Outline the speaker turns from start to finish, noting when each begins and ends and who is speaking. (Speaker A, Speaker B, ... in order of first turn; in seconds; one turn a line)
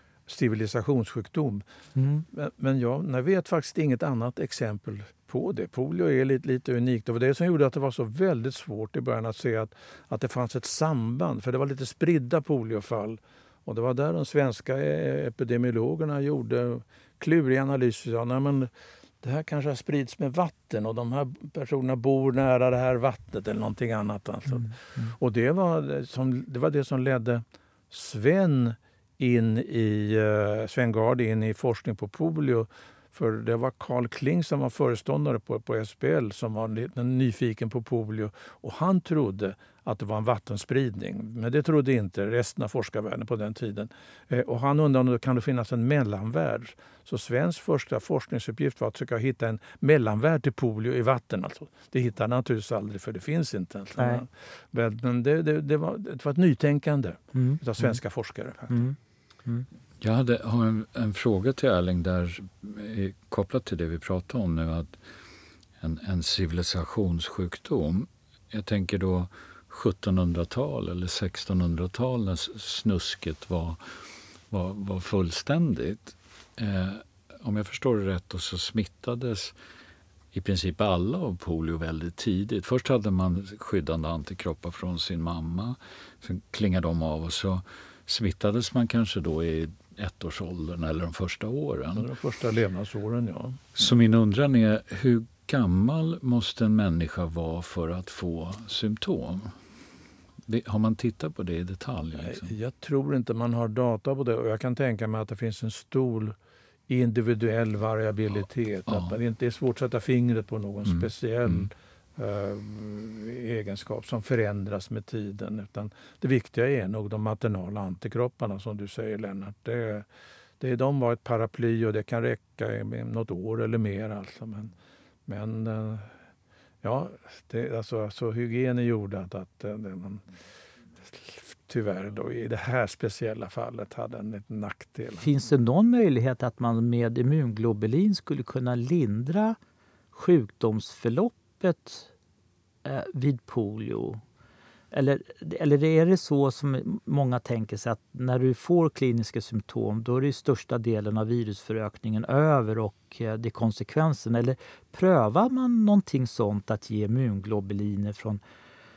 Speaker A: 0.3-1.6
Speaker B: 1.9-2.3
Speaker A: 2.3-18.7
Speaker A: 19.2-58.9
Speaker B: 24.5-25.1
Speaker B: 54.0-54.2
Speaker B: 57.4-58.0
Speaker B: 58.7-59.7
Speaker C: 60.0-65.0
Speaker C: 65.8-74.0
Speaker C: 74.5-79.5
Speaker C: 80.3-92.1
Speaker A: 92.0-93.9
Speaker C: 93.8-99.6
Speaker C: 100.5-102.5
Speaker A: 102.2-106.4
Speaker A: 106.9-120.1
Speaker C: 110.9-111.7
Speaker A: 120.6-124.7
Speaker A: 125.3-126.1
Speaker A: 126.8-130.3
Speaker A: 131.0-135.3
Speaker B: 135.2-139.6
Speaker B: 140.1-142.1
Speaker B: 142.8-144.2
Speaker B: 144.9-158.4